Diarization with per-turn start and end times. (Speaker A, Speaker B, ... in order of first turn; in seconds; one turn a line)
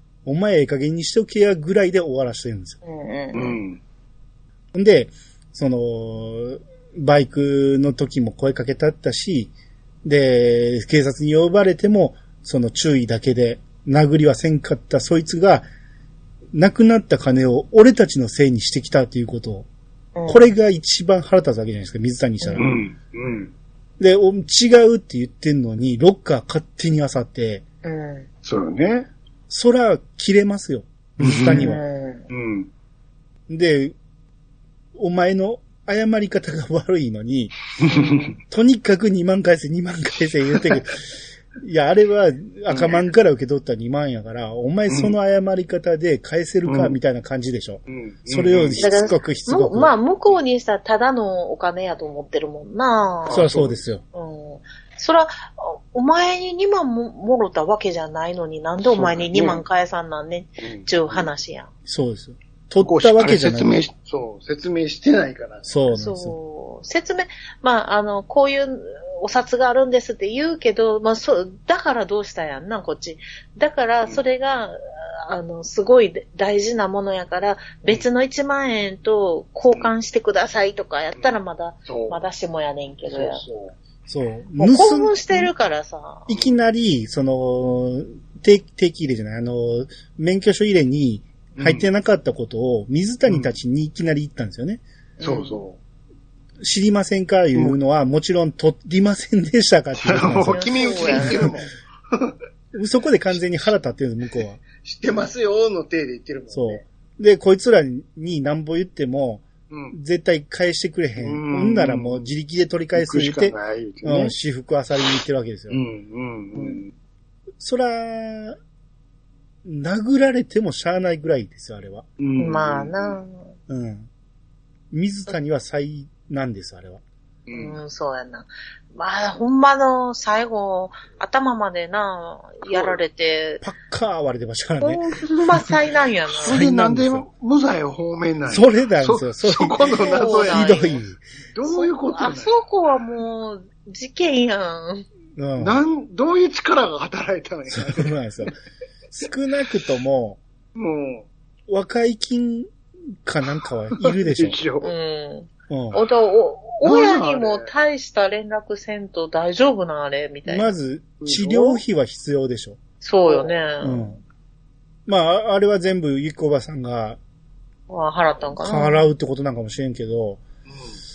Speaker A: 0.3-2.8
Speaker B: 2.9-3.6
Speaker C: 3.3-3.8
Speaker A: 4.7-9.5
Speaker A: 10.1-15.7
Speaker A: 16.5-19.7
Speaker B: 20.2-20.5
Speaker A: 20.3-22.7
Speaker C: 22.6-23.5
Speaker A: 24.0-27.6
Speaker B: 27.8-28.3
Speaker C: 28.4-29.1
Speaker A: 29.5-31.8
Speaker C: 31.2-31.8
Speaker B: 31.4-32.3
Speaker C: 32.3-32.7
Speaker A: 33.5-34.0
Speaker A: 35.0-37.6
Speaker C: 37.8-38.4
Speaker B: 37.9-38.3
Speaker A: 38.5-49.9
Speaker C: 42.7-43.0
Speaker C: 44.9-45.1
Speaker C: 46.7-47.0
Speaker C: 47.9-49.0
Speaker B: 48.8-53.5
Speaker C: 53.3-53.9
Speaker A: 53.3-54.0
Speaker B: 54.1-61.7
Speaker C: 58.8-59.6
Speaker C: 60.6-61.3
Speaker A: 61.9-63.8
Speaker C: 62.8-65.7
Speaker A: 65.7-66.4
Speaker B: 65.9-83.4
Speaker C: 81.2-82.2
Speaker C: 83.1-83.7
Speaker A: 84.1-85.5
Speaker B: 84.6-86.3
Speaker A: 86.3-94.8
Speaker C: 91.6-91.9
Speaker B: 95.2-95.6
Speaker C: 95.2-95.8
Speaker A: 96.6-101.5
Speaker C: 100.0-102.3
Speaker B: 100.5-101.5
Speaker A: 102.7-104.6
Speaker C: 103.3-103.7
Speaker C: 104.7-106.8
Speaker A: 106.5-115.8
Speaker C: 109.7-110.0
Speaker C: 111.2-112.3
Speaker C: 113.0-114.3
Speaker C: 115.7-116.9
Speaker A: 117.6-118.6
Speaker A: 119.7-122.1
Speaker C: 122.2-123.2
Speaker B: 122.4-123.5
Speaker A: 123.7-124.1
Speaker A: 124.9-127.0
Speaker C: 127.5-127.8
Speaker B: 127.5-133.6
Speaker C: 132.7-133.0
Speaker A: 133.6-135.7
Speaker B: 134.8-136.6
Speaker C: 136.3-140.8
Speaker A: 136.4-137.3
Speaker A: 138.5-141.2
Speaker B: 139.9-141.0
Speaker C: 141.5-142.6
Speaker B: 141.7-145.1
Speaker A: 145.4-145.8
Speaker C: 145.6-148.2
Speaker A: 147.7-148.6
Speaker A: 149.1-150.4
Speaker C: 150.8-151.3
Speaker A: 151.7-152.7
Speaker A: 153.2-154.6
Speaker C: 154.0-154.9
Speaker B: 154.8-160.7
Speaker A: 155.7-156.0
Speaker C: 156.8-157.7
Speaker A: 160.5-162.8
Speaker C: 161.2-161.8
Speaker B: 163.0-164.1
Speaker C: 163.2-163.5
Speaker A: 163.8-164.2
Speaker A: 165.1-167.2
Speaker B: 167.9-169.1
Speaker A: 168.6-170.4
Speaker C: 170.7-171.0